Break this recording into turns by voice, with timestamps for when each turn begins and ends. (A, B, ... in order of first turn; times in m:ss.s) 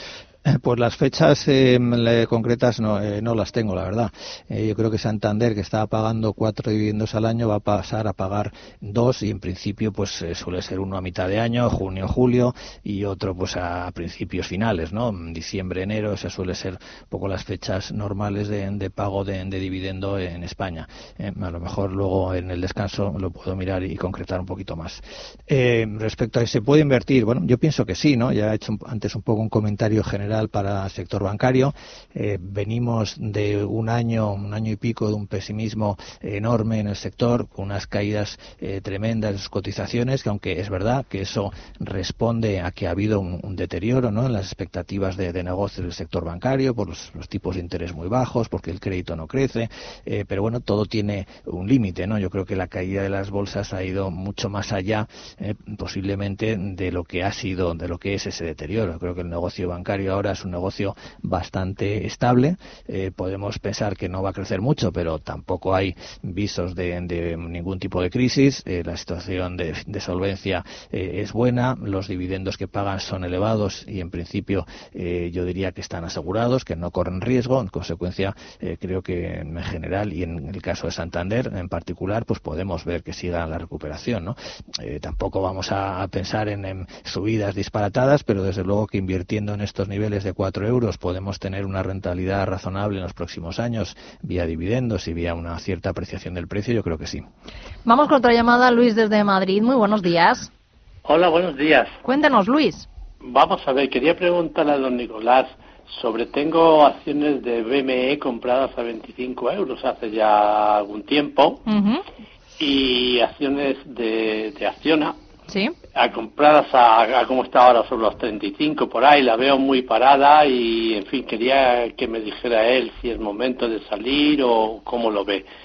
0:00.4-1:37.3 A
1:37.9-1:40.5 B
1:41.0-1:42.0 C
1:42.0-1:42.9 B
1:43.2-1:51.6 C
1:51.7-1:52.0 B
1:52.6-1:55.2 C
1:55.5-1:55.7 B
1:56.0-2:05.5 C